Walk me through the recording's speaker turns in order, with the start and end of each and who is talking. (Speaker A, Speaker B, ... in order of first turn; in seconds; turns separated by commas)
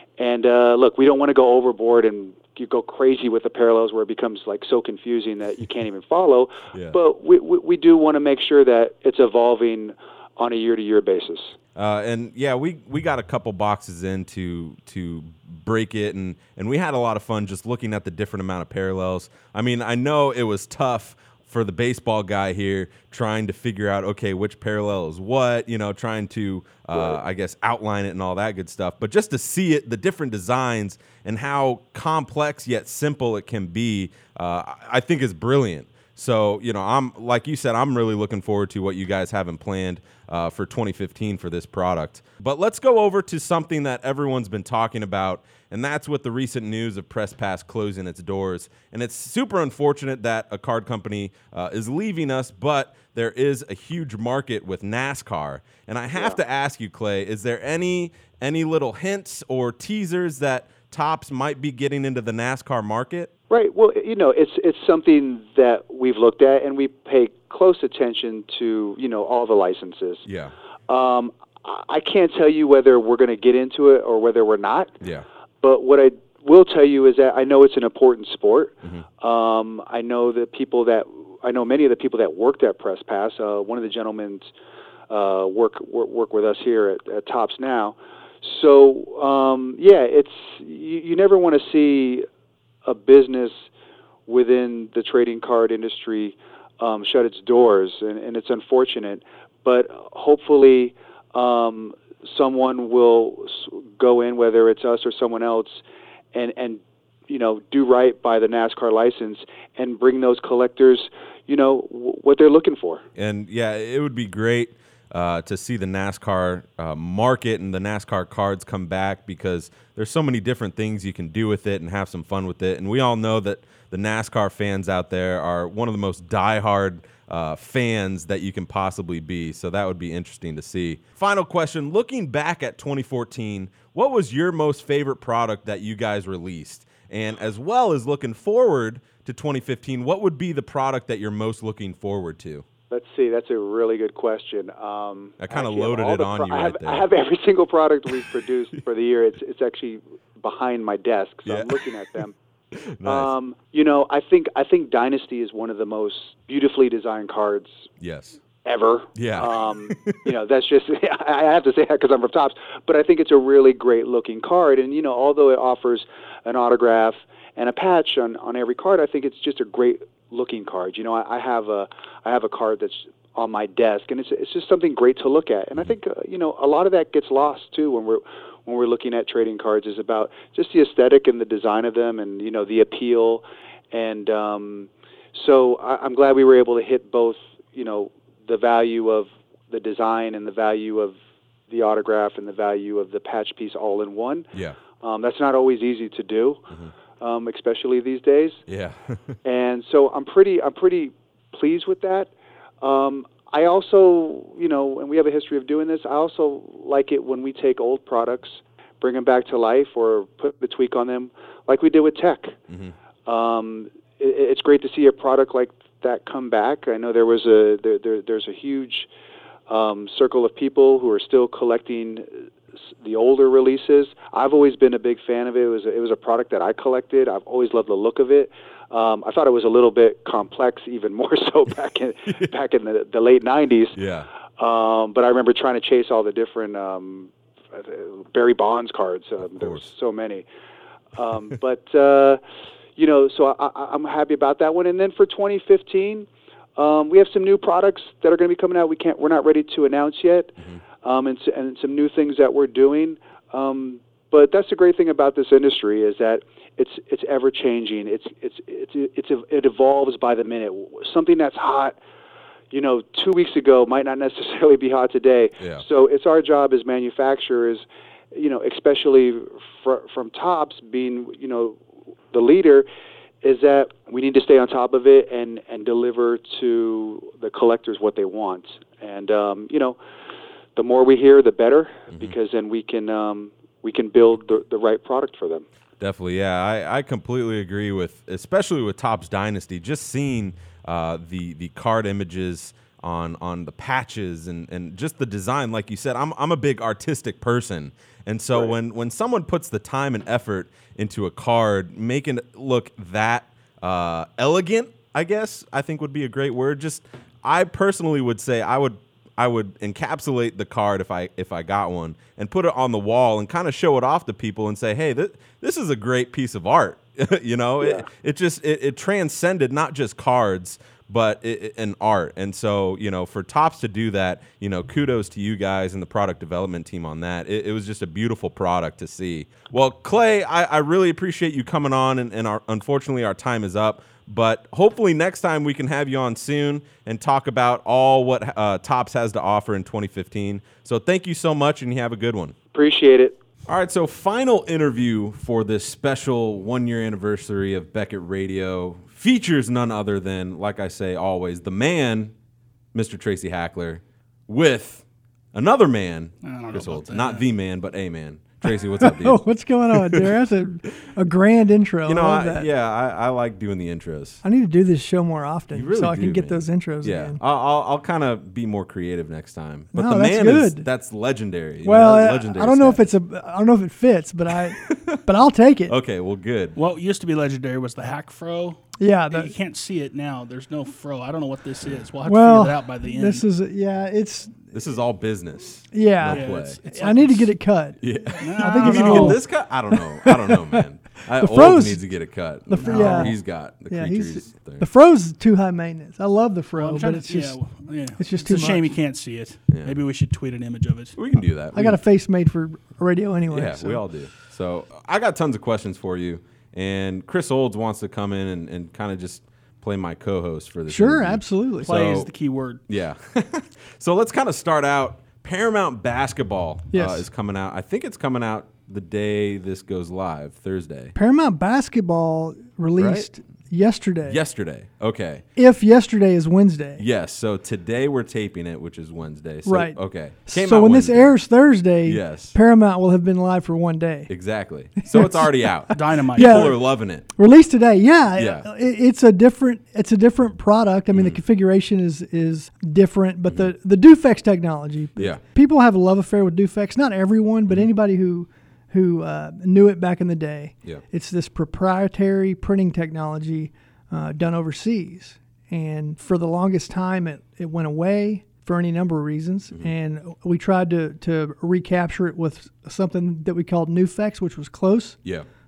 Speaker A: 0.2-11.6, Speaker B: 6.7-7.0, Speaker B: 11.8-63.3, Speaker A: 56.1-56.4, Speaker A: 63.5-70.2, Speaker B: 70.2-70.5, Speaker A: 70.9-74.9, Speaker A: 75.6-84.5, Speaker A: 85.1-92.3, Speaker A: 92.8-93.5, Speaker A: 94.3-105.8, Speaker A: 106.3-113.0, Speaker B: 113.2-142.7, Speaker A: 142.9-152.3, Speaker B: 145.4-147.1, Speaker B: 148.1-148.8, Speaker B: 151.4-153.3, Speaker A: 153.0-157.8, Speaker B: 158.0-158.4, Speaker A: 158.6-191.2, Speaker B: 159.2-160.3, Speaker A: 191.7-196.6, Speaker A: 197.2-198.6, Speaker B: 198.7-199.4, Speaker A: 199.4-212.6, Speaker B: 212.7-212.9, Speaker A: 213.3-219.1, Speaker A: 219.7-222.4, Speaker A: 223.0-234.0, Speaker B: 233.9-234.3, Speaker A: 234.6-240.4, Speaker B: 239.4-239.9, Speaker A: 241.2-242.4, Speaker A: 243.0-262.0, Speaker A: 262.7-271.8, Speaker B: 265.6-265.9, Speaker A: 272.3-272.9, Speaker A: 273.4-280.0, Speaker A: 280.8-285.6, Speaker B: 286.0-342.6, Speaker A: 342.7-343.4, Speaker B: 343.7-352.3, Speaker B: 352.9-360.3, Speaker C: 356.4-357.5, Speaker D: 358.7-362.7, Speaker B: 362.1-364.4, Speaker D: 364.4-367.4, Speaker B: 365.7-373.0, Speaker D: 369.9-370.9, Speaker D: 371.8-375.9, Speaker B: 374.8-375.2, Speaker B: 375.9-376.8, Speaker C: 376.8-383.5, Speaker D: 379.0-379.5, Speaker D: 382.2-384.6, Speaker B: 384.7-386.8, Speaker D: 385.9-392.1, Speaker C: 386.3-387.6, Speaker B: 388.0-394.9, Speaker C: 388.4-389.4, Speaker D: 392.7-399.0, Speaker C: 392.7-393.4, Speaker C: 396.8-401.2, Speaker B: 399.7-400.0, Speaker B: 401.1-402.0, Speaker D: 401.7-404.1, Speaker B: 403.5-412.3, Speaker D: 410.9-412.2, Speaker C: 411.8-412.8, Speaker B: 412.9-421.1, Speaker D: 416.9-417.3, Speaker D: 421.1-424.4, Speaker B: 422.9-423.3, Speaker B: 424.3-425.4, Speaker D: 425.6-427.0, Speaker B: 427.0-431.3, Speaker D: 429.6-434.3, Speaker B: 432.0-432.6, Speaker B: 434.3-437.3, Speaker D: 435.0-465.2, Speaker C: 435.9-436.8, Speaker B: 438.4-438.7, Speaker B: 441.1-441.4, Speaker B: 443.5-443.7, Speaker B: 445.2-445.4